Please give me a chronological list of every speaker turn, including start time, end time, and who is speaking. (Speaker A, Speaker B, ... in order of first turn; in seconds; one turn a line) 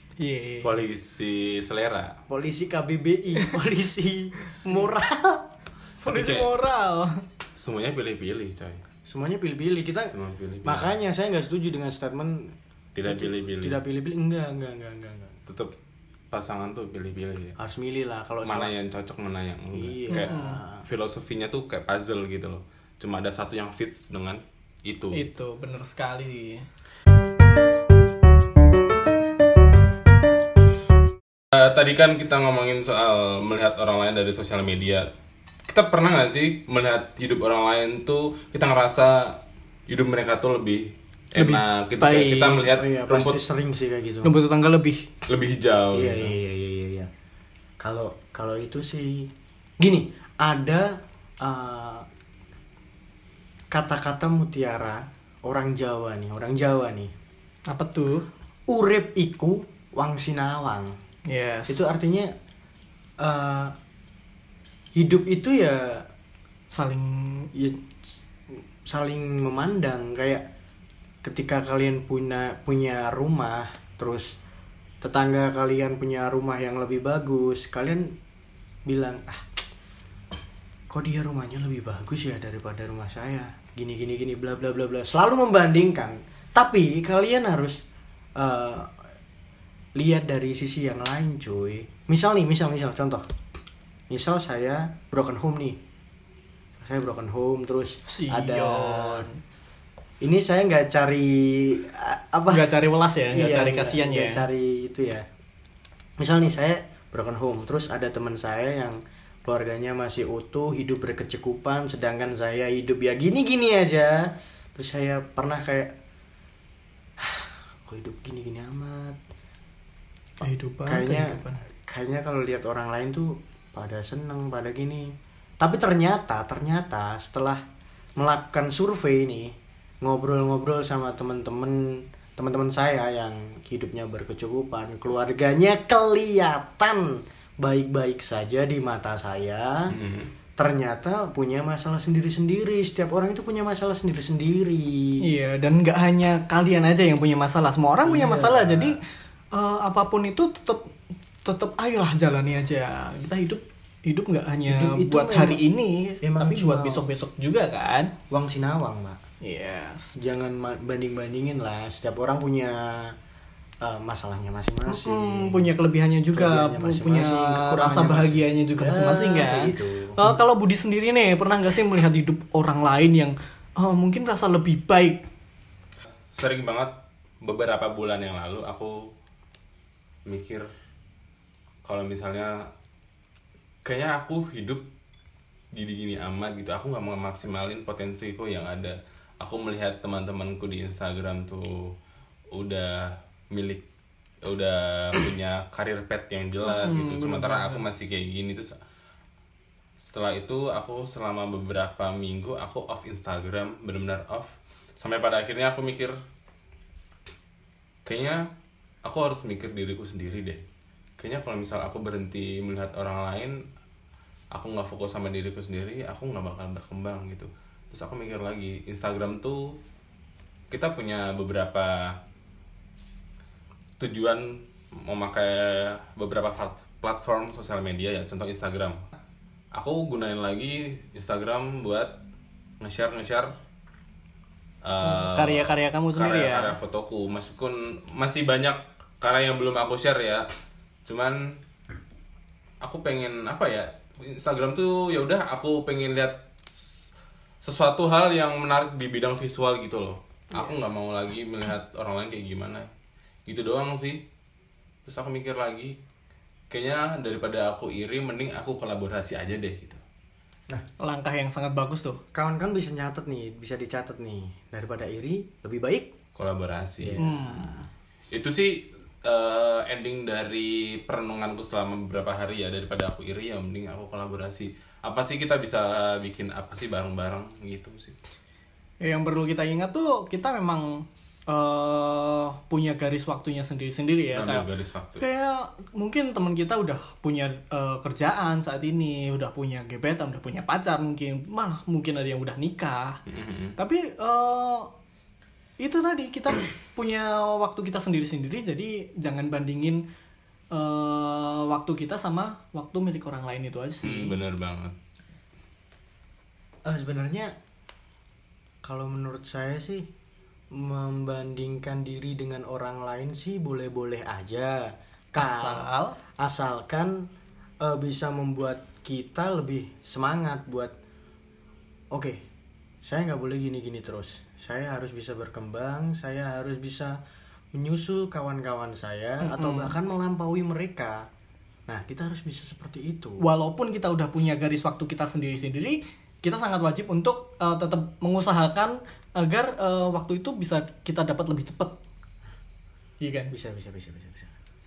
Speaker A: 0.2-0.7
Speaker B: 0.6-2.2
Speaker C: 2.3-5.5
Speaker A: 6.0-7.2
Speaker B: 6.0-6.5
Speaker B: 7.5-8.8
Speaker C: 9.1-15.3
Speaker B: 10.1-10.9
Speaker B: 12.9-13.8
Speaker B: 15.5-15.7
Speaker B: 16.3-17.6
Speaker C: 17.6-18.8
Speaker B: 18.4-25.2
Speaker C: 19.7-20.8
Speaker A: 20.1-20.6
Speaker A: 25.1-26.6
Speaker B: 31.5-35.1
Speaker B: 35.7-43.4
Speaker A: 41.4-42.7
Speaker C: 42.7-44.3
Speaker A: 44.2-45.1
Speaker B: 45.3-46.4
Speaker C: 45.9-47.1
Speaker C: 47.8-49.3
Speaker C: 49.8-52.0
Speaker C: 53.7-57.1
Speaker A: 57.7-58.2
Speaker C: 58.7-61.0
Speaker A: 61.3-61.8
Speaker C: 61.7-62.3
Speaker C: 63.2-63.7
Speaker C: 64.9-66.0
Speaker A: 66.7-67.5
Speaker C: 67.5-67.8
Speaker C: 68.5-70.4
Speaker C: 71.2-74.3
Speaker C: 75.0-78.1
Speaker C: 78.8-79.5
Speaker C: 80.9-87.8
Speaker C: 88.3-88.9
Speaker C: 90.0-93.2
Speaker C: 94.1-95.8
Speaker C: 96.8-99.2
Speaker A: 98.1-99.4
Speaker C: 100.2-102.7
Speaker A: 102.5-104.4
Speaker C: 103.3-105.2
Speaker C: 106.2-115.9
Speaker C: 117.2-119.2
Speaker A: 120.4-121.6
Speaker C: 120.8-127.6
Speaker C: 128.2-139.9
Speaker B: 139.9-140.3
Speaker C: 140.6-145.2
Speaker A: 145.2-149.0
Speaker C: 148.1-149.0
Speaker A: 149.5-150.9
Speaker A: 151.4-158.1
Speaker C: 154.6-155.6
Speaker C: 156.2-157.0
Speaker C: 158.3-159.2
Speaker A: 159.4-160.2
Speaker C: 160.2-163.2
Speaker C: 163.8-165.7
Speaker A: 164.9-175.2
Speaker C: 166.3-170.2
Speaker B: 176.3-179.1
Speaker B: 180.2-180.7
Speaker B: 181.8-182.7
Speaker B: 183.8-184.8
Speaker B: 185.7-191.9
Speaker B: 192.5-193.8
Speaker B: 194.4-198.8
Speaker A: 196.6-197.8
Speaker B: 200.0-206.2
Speaker B: 208.1-208.5
Speaker B: 209.0-210.6
Speaker B: 211.2-213.6
Speaker B: 214.5-219.8
Speaker B: 220.7-222.2
Speaker B: 224.0-229.0
Speaker B: 229.7-232.2
Speaker B: 232.8-233.6
Speaker B: 234.8-240.5
Speaker A: 235.0-236.8
Speaker B: 241.1-241.6
Speaker B: 242.8-246.4
Speaker B: 247.6-252.9
Speaker B: 253.4-254.2
Speaker B: 255.1-256.0
Speaker B: 256.7-260.0
Speaker A: 261.0-262.2
Speaker C: 262.3-266.1
Speaker B: 266.3-267.2
Speaker C: 267.0-267.6
Speaker A: 267.2-267.9
Speaker B: 268.3-278.1
Speaker A: 279.0-284.7
Speaker B: 284.3-285.2
Speaker A: 285.2-293.2
Speaker B: 293.3-293.8
Speaker A: 293.8-294.9
Speaker A: 295.8-300.0
Speaker A: 300.7-304.4
Speaker B: 304.0-304.9
Speaker C: 306.8-307.5
Speaker C: 308.8-310.1
Speaker C: 310.7-315.9
Speaker A: 315.4-316.2
Speaker C: 316.4-317.3
Speaker C: 317.8-320.9
Speaker C: 322.1-322.4
Speaker C: 323.0-327.2
Speaker C: 327.7-331.2
Speaker A: 329.4-329.9
Speaker C: 331.9-333.4
Speaker A: 333.4-342.0
Speaker A: 343.2-343.5
Speaker C: 343.5-344.5